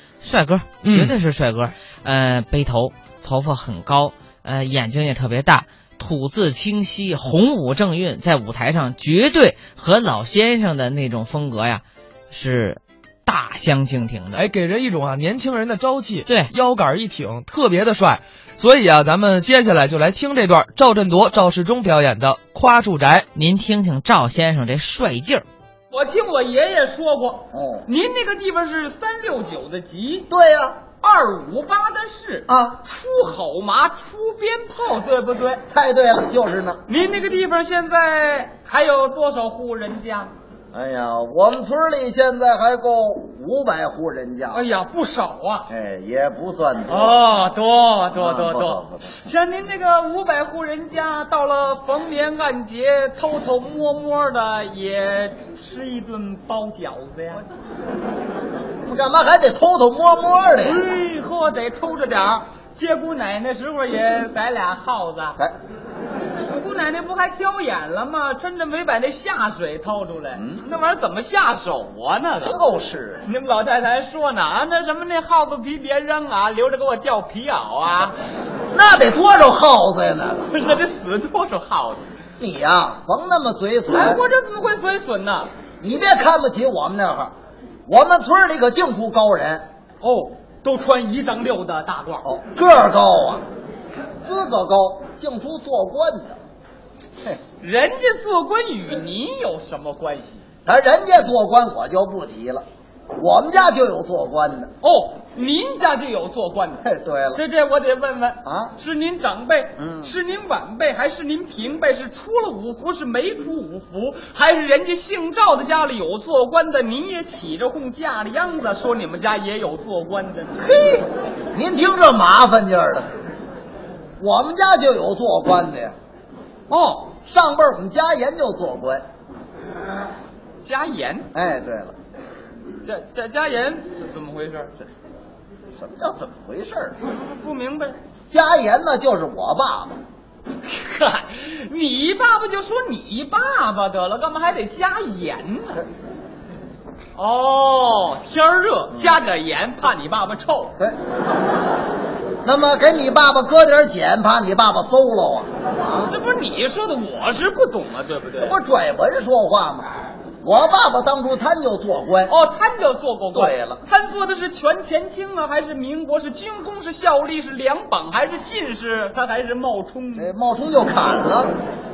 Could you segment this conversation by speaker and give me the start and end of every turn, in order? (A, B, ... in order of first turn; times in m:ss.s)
0:00.2-0:14.4 A
0:14.3-0:23.2 B
0:23.3-0:25.4 A
0:25.9-0:30.3 C
0:27.5-0:27.9 D
0:30.3-0:30.8 D
0:31.0-0:35.6 C
0:32.5-0:32.8 D
0:35.7-0:36.8 D
0:36.9-0:40.3 C
0:40.7-0:44.7 D
0:44.5-0:45.7 C
0:45.7-0:47.2 D
0:46.9-0:57.4 C
0:48.1-0:49.1 D
0:58.8-1:00.8 D
1:00.6-1:05.4 C
1:06.4-1:12.6 C
1:10.3-1:10.6 D
1:12.3-1:13.2 D
1:13.2-1:18.2 C
1:18.7-1:20.5 D
1:20.5-1:22.0 C
1:22.4-1:24.2 D
1:23.9-1:25.5 C
1:25.8-1:27.3 D
1:27.9-1:29.7 D
1:30.0-1:32.2 C
1:32.2-1:33.4 D
1:34.2-1:36.4 D
1:37.6-1:40.4 C
1:40.6-1:42.6 D
1:43.2-1:44.7 D
1:44.8-2:01.0 C
1:46.8-1:47.4 D
1:48.4-1:48.7 D
1:49.8-1:50.2 D
2:01.5-2:03.1 D
2:04.2-2:05.9 D
2:06.7-2:07.2 C
2:07.3-2:09.0 D
2:10.6-2:11.3 C
2:11.3-2:11.9 D
2:12.8-2:14.9 C
2:15.8-2:17.0 D
2:17.1-2:18.0 C
2:18.3-2:20.0 D
2:20.6-2:25.8 C
2:27.2-2:30.8 C
2:28.9-2:29.2 D
2:32.4-2:36.1 D
2:36.1-2:38.6 C
2:38.4-2:39.9 D
2:40.4-2:42.3 D
2:42.3-2:50.3 C
2:43.3-2:43.8 D
2:50.1-2:51.5 D